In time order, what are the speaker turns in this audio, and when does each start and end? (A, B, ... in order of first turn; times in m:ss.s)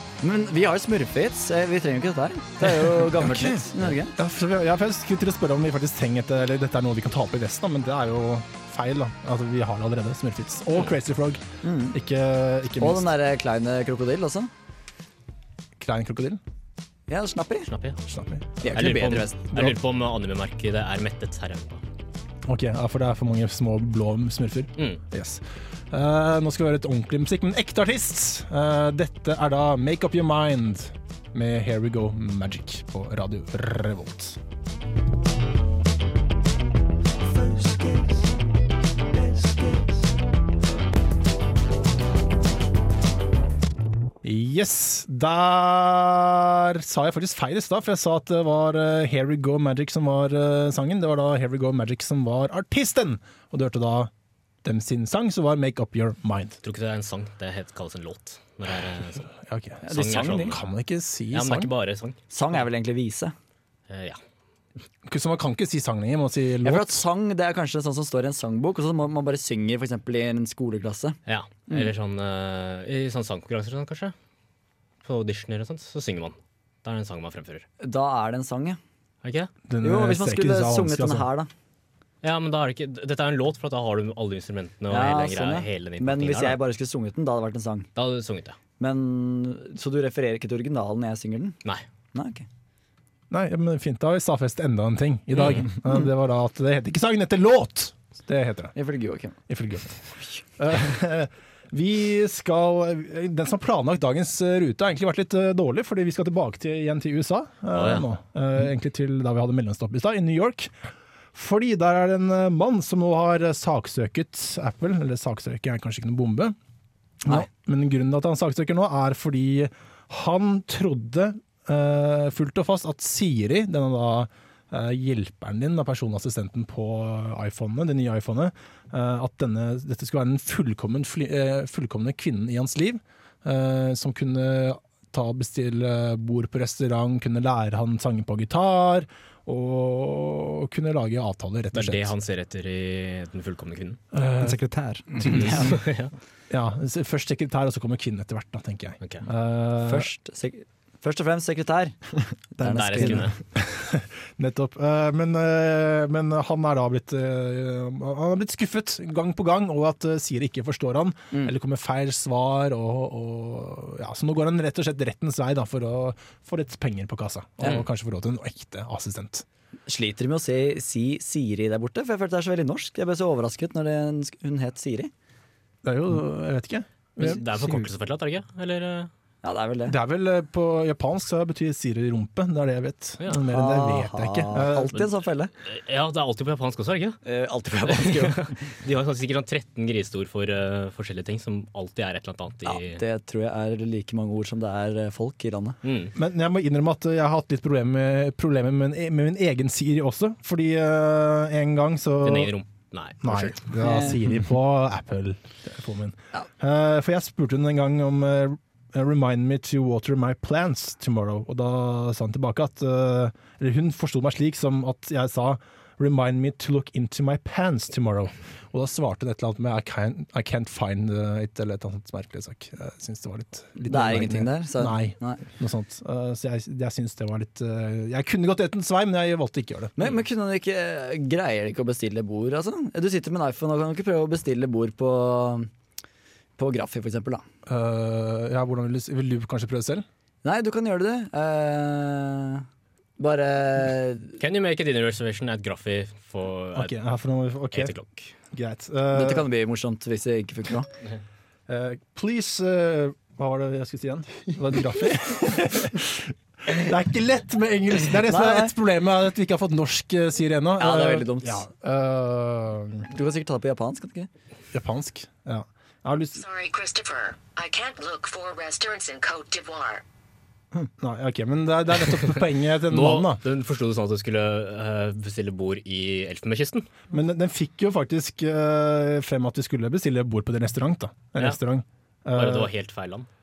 0:00.2-0:04.2 A
0:02.9-0:13.1 B
0:11.6-0:12.0 A
0:12.8-0:14.5 A
0:15.8-0:16.4 B
0:17.1-0:17.7 A
0:17.7-0:18.0 C
0:18.1-0:18.6 B
0:18.6-0:19.4 A
0:18.7-0:21.8 C
0:22.5-0:34.4 B
0:44.2-0:54.1 B
0:54.6-0:56.6 B
0:56.6-0:59.3 C
0:59.4-1:01.7 B
0:59.8-1:00.6 A
0:59.9-1:00.6 C
1:01.3-1:02.2 C
1:02.3-1:03.3 A
1:03.9-1:04.2 C
1:05.1-1:07.0 B
1:06.6-1:11.2 A
1:11.2-1:14.1 C
1:15.0-1:17.7 C
1:17.8-1:18.8 A
1:19.2-1:19.5 C
1:19.7-1:21.3 B
1:19.8-1:21.5 A
1:22.2-1:26.6 C
1:24.9-1:27.9 A
1:28.0-1:28.6 C
1:28.8-1:31.6 A
1:32.1-1:32.5 A
1:33.3-1:38.8 B
1:35.3-1:35.7 C
1:38.8-1:39.4 A
1:39.5-1:40.0 B
1:40.6-1:50.7 B
1:47.7-1:48.1 C
1:51.3-1:56.6 B
1:57.2-2:22.1 B
2:21.7-2:24.0 C
2:24.1-2:24.6 B
2:24.4-2:25.8 D
2:25.2-2:25.8 B
2:25.2-2:26.1 C
2:26.5-2:30.1 B
2:29.8-2:32.0 A
2:32.6-2:33.3 D
2:32.6-2:33.3 A
2:32.7-2:33.4 C
2:33.6-2:49.4 B
2:49.9-2:55.1 A
2:55.8-2:57.4 B
2:57.2-2:59.1 C
2:59.4-3:00.0 A
2:59.9-3:05.0 B
3:03.5-3:05.5 A
3:05.6-3:07.2 C
3:07.2-3:08.5 A
3:07.9-3:13.0 C
3:12.6-3:15.8 A
3:15.8-3:16.1 C
3:16.2-3:22.5 B
3:22.2-3:23.6 C
3:23.2-3:50.0 B
3:23.8-3:24.2 A
3:43.9-3:45.4 A
3:50.0-3:55.7 A
3:56.6-3:57.4 A
3:57.7-4:00.0 B
4:00.4-4:02.6 A
4:03.2-4:04.4 A
4:04.4-4:06.9 C
4:06.8-4:07.9 B
4:07.7-4:08.3 C
4:08.5-4:09.5 B
4:09.1-4:10.9 A
4:11.7-4:23.1 B
4:18.2-4:18.7 A
4:20.8-4:21.6 A
4:23.1-4:24.3 A
4:24.7-4:26.4 B
4:26.4-4:30.0 E
4:31.0-4:33.4 B
4:32.9-4:36.9 C
4:37.1-4:42.7 B
4:42.4-4:43.3 C